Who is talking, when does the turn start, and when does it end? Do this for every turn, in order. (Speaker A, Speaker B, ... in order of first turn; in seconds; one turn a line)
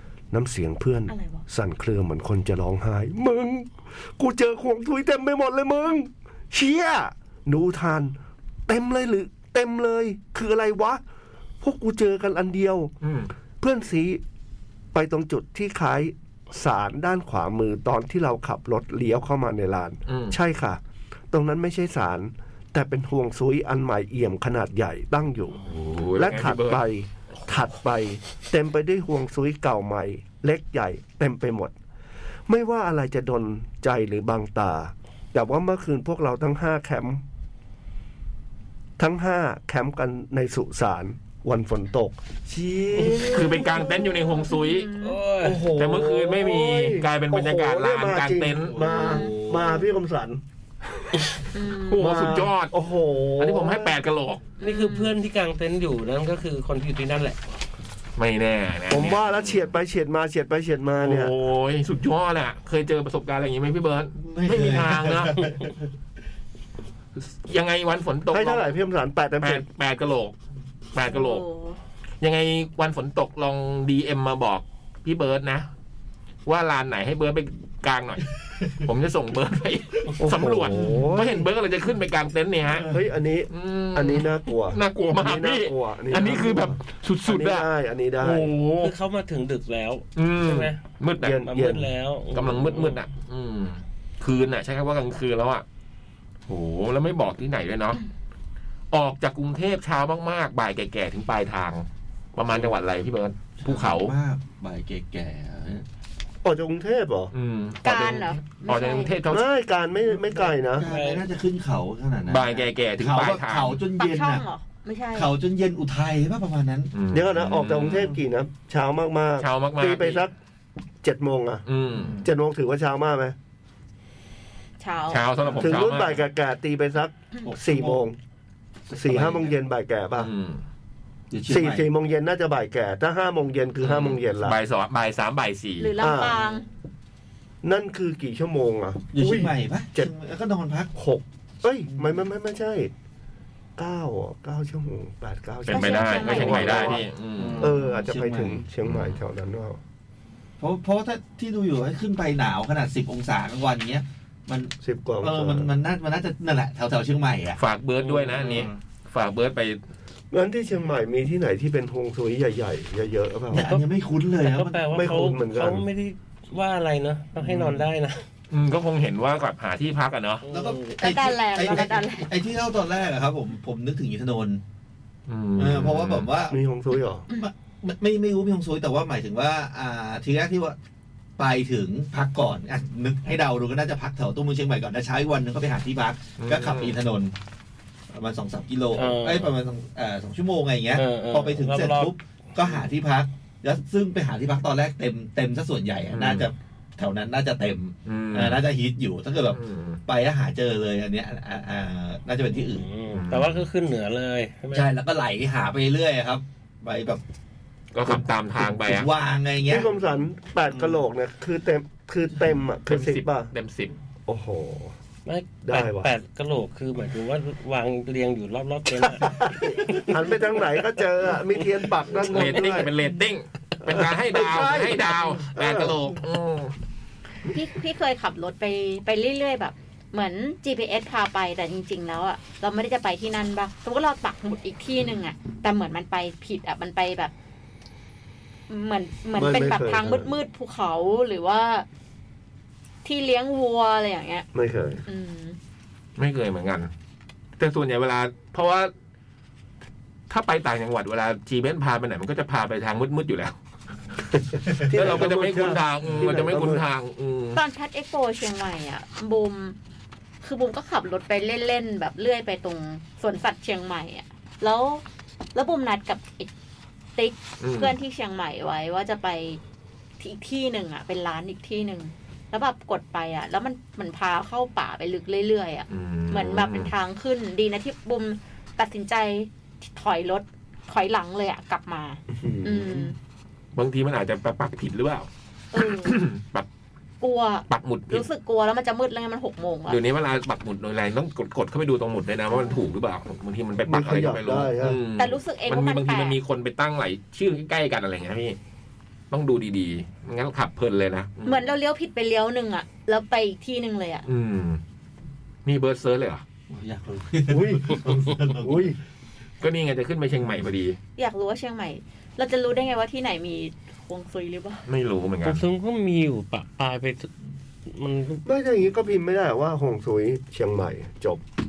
Speaker A: 0.3-8.2
Speaker B: 1.1-1.4
Speaker A: 8.7-11.0
Speaker A: 11.6-12.9
Speaker C: 13.0-13.3
Speaker A: 13.6-14.2
Speaker A: 14.9-25.6
Speaker C: 20.1-20.4
Speaker C: 25.6-26.8
Speaker A: 26.2-31.7
Speaker A: 32.5-37.2
Speaker A: 39.0-43.8
Speaker D: 43.0-43.3
Speaker C: 43.2-44.9
Speaker B: 43.7-45.2
Speaker D: 45.0-45.7
Speaker A: 45.4-50.4
Speaker C: 45.6-48.8
Speaker E: 48.8-49.6
Speaker B: 48.9-49.3
Speaker B: 51.5-52.1
Speaker C: 51.8-52.7
Speaker A: 52.0-54.0
Speaker C: 53.4-54.5
Speaker B: 54.6-55.1
Speaker D: 54.6-57.4
Speaker C: 58.2-59.6
Speaker A: 58.9-61.3
Speaker C: 61.0-65.5
Speaker E: 64.2-65.8
Speaker C: 67.2-68.7
Speaker A: 68.3-69.7
Speaker C: 69.4-70.3
Speaker C: 70.9-71.4
Speaker B: 71.1-71.8
Speaker C: 72.2-75.7
Speaker C: 76.5-82.9
Speaker A: 80.2-81.5
Speaker E: 82.7-83.0
Speaker A: 82.9-88.5
Speaker C: 83.5-87.7
Speaker C: 88.2-89.0
Speaker D: 88.8-90.8
Speaker C: 90.2-91.4
Speaker A: 91.2-91.9
Speaker D: 91.4-93.0
Speaker C: 92.3-95.7
Speaker C: 96.5-98.0
Speaker C: 98.9-104.2
Speaker E: 102.5-102.8
Speaker E: 103.6-105.9
Speaker A: 106.4-107.3
Speaker C: 107.3-109.5
Speaker B: 107.8-109.1
Speaker A: 109.3-110.9
Speaker E: 110.1-114.5
Speaker D: 110.9-111.3
Speaker C: 112.3-113.8
Speaker B: 114.0-115.3
Speaker E: 115.1-116.9
Speaker C: 116.9-118.1
Speaker A: 117.1-120.3
Speaker C: 119.4-120.2
Speaker A: 121.0-121.7
Speaker C: 121.7-122.2
Speaker E: 121.9-122.3
Speaker A: 122.2-123.4
Speaker B: 124.8-125.2
Speaker C: 125.1-126.2
Speaker E: 125.4-125.8
Speaker A: 125.6-128.2
Speaker E: 127.4-128.0
Speaker E: 128.9-129.5
Speaker A: 128.9-130.3
Speaker C: 130.2-130.6
Speaker E: 131.3-131.9
Speaker A: 131.5-134.6
Speaker C: 133.8-135.9
Speaker B: 135.8-136.7
Speaker A: 136.0-136.4
Speaker A: 137.6-140.1
Speaker E: 139.1-140.9
Speaker A: 140.9-142.9
Speaker A: 143.8-147.0
Speaker C: 145.7-147.8
Speaker B: 145.7-147.0
Speaker E: 146.5-148.7
Speaker A: 147.6-149.8
Speaker C: 148.9-149.2
Speaker E: 150.6-158.7
Speaker A: 154.8-155.7
Speaker C: 157.6-159.8
Speaker A: 160.3-163.7
Speaker E: 163.5-165.1
Speaker D: 163.5-163.8
Speaker D: 164.4-168.2
Speaker A: 164.9-165.9
Speaker C: 168.5-170.4
Speaker D: 170.4-171.0
Speaker E: 170.5-174.6
Speaker B: 171.0-172.3
Speaker C: 175.3-176.3
Speaker E: 175.6-176.6
Speaker A: 176.5-177.3
Speaker E: 177.3-180.8
Speaker E: 181.4-187.3
Speaker C: 186.4-187.0
Speaker E: 188.1-202.9
Speaker D: 188.9-189.5
Speaker D: 190.9-192.1
Speaker C: 196.1-196.5
Speaker C: 198.1-198.6
Speaker C: 199.5-200.0
Speaker D: 202.7-204.9
Speaker C: 203.1-203.7
Speaker E: 204.7-207.2
Speaker C: 207.9-209.1
Speaker E: 208.1-209.9
Speaker A: 209.7-213.5
Speaker C: 212.9-214.0
Speaker A: 214.3-214.9
Speaker D: 215.3-220.2
Speaker A: 215.6-216.1
Speaker A: 219.1-222.9
Speaker C: 222.2-226.7
Speaker A: 223.8-226.0
Speaker B: 227.5-237.3
Speaker B: 238.7-241.9
Speaker A: 239.3-240.4
Speaker B: 243.1-244.5
Speaker A: 244.5-245.0
Speaker B: 245.1-245.6
Speaker C: 246.2-246.9
Speaker C: 247.6-248.9
Speaker C: 250.3-253.6
Speaker A: 254.5-256.9
Speaker C: 254.7-257.6
Speaker B: 257.6-259.8
Speaker B: 260.4-265.0
Speaker B: 265.6-266.5
Speaker B: 267.2-269.6
Speaker C: 267.6-267.9
Speaker B: 270.2-283.1
Speaker C: 275.9-276.9
Speaker A: 282.3-283.1
Speaker C: 283.8-286.7
Speaker B: 285.7-286.2
Speaker B: 287.2-290.0
Speaker C: 287.7-288.3
Speaker C: 289.9-298.6
Speaker B: 292.5-292.9
Speaker A: 293.9-295.0
Speaker B: 295.2-296.4
Speaker C: 299.3-301.7
Speaker B: 301.4-304.3
Speaker C: 304.3-304.8
Speaker C: 305.6-306.4
Speaker E: 306.7-309.0
Speaker A: 307.5-309.0
Speaker C: 309.6-311.0
Speaker B: 311.2-314.9
Speaker C: 314.9-315.6
Speaker D: 315.4-317.3
Speaker D: 317.9-318.4
Speaker A: 318.4-321.4